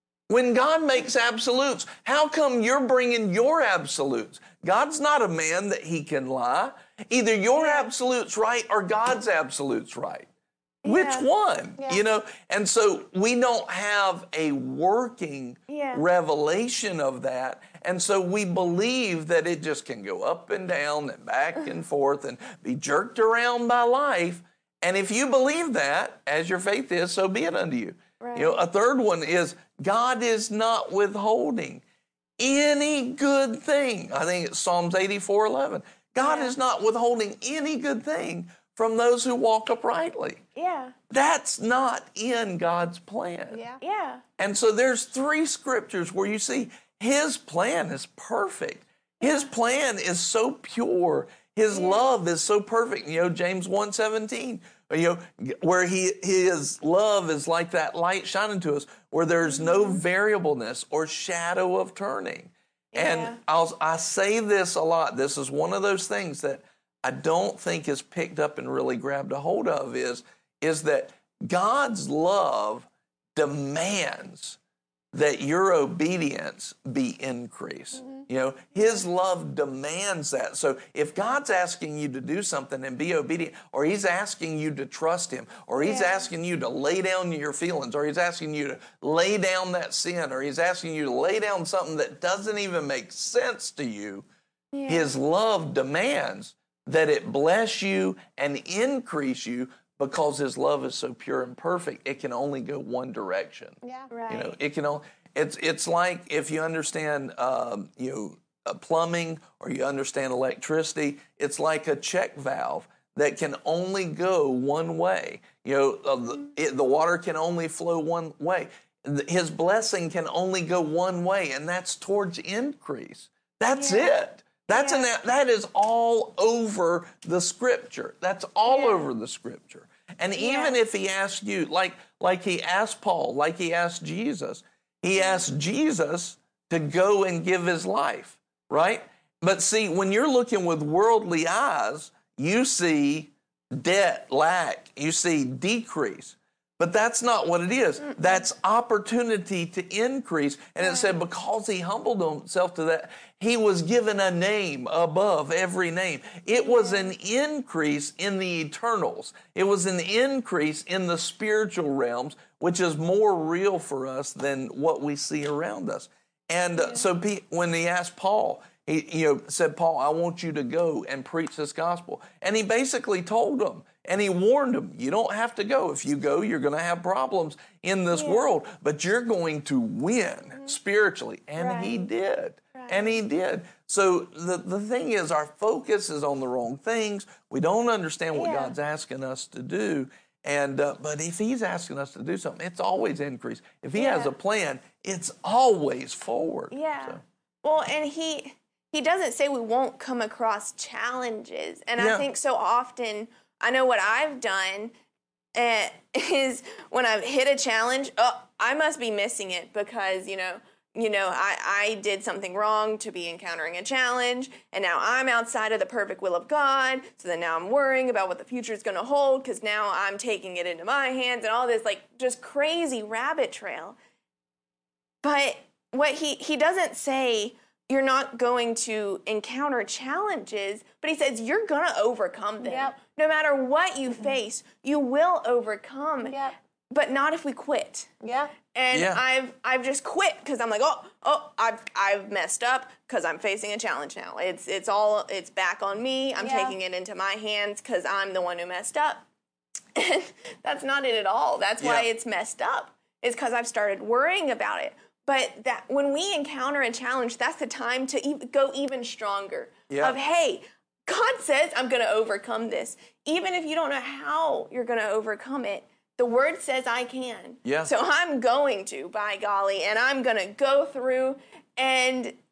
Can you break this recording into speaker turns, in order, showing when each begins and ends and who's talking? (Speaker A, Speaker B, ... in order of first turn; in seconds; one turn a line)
Speaker A: 0.3-10.3
Speaker B: 7.5-7.9
Speaker B: 10.8-11.3
Speaker A: 10.8-31.8
Speaker B: 15.7-16.0
Speaker B: 28.2-28.6
Speaker A: 32.4-40.4
Speaker B: 36.2-36.5
Speaker B: 40.5-41.0
Speaker A: 41.1-43.6
Speaker C: 43.5-43.8
Speaker B: 43.8-44.2
Speaker A: 44.4-74.6
Speaker B: 49.2-49.5
Speaker B: 51.7-52.0
Speaker B: 59.5-60.0
Speaker B: 62.9-63.4
Speaker A: 75.1-94.2
Speaker B: 85.8-86.3
Speaker B: 94.7-95.1
Speaker A: 94.9-103.8
Speaker C: 103.8-104.1
Speaker B: 104.1-104.5
Speaker A: 104.3-197.2
Speaker B: 123.7-124.2
Speaker B: 124.7-125.1
Speaker B: 128.7-129.1
Speaker B: 130.4-130.8
Speaker B: 135.1-135.4
Speaker B: 148.1-148.4
Speaker B: 150.8-151.1
Speaker B: 156.5-157.1
Speaker B: 166.7-167.1
Speaker B: 178.1-178.4
Speaker B: 181.6-182.0
Speaker B: 182.7-183.2
Speaker B: 188.3-188.7
Speaker B: 193.9-194.3
Speaker B: 196.7-204.9
Speaker A: 202.0-202.3
Speaker B: 205.5-223.9
Speaker B: 225.2-236.4
Speaker C: 232.6-232.9
Speaker C: 236.3-236.5
Speaker B: 236.9-238.1
Speaker C: 238.2-238.5
Speaker B: 238.7-249.2
Speaker A: 238.9-239.2
Speaker C: 246.4-246.8
Speaker B: 249.9-272.4
Speaker A: 251.8-252.1
Speaker A: 259.9-260.1
Speaker A: 267.6-267.9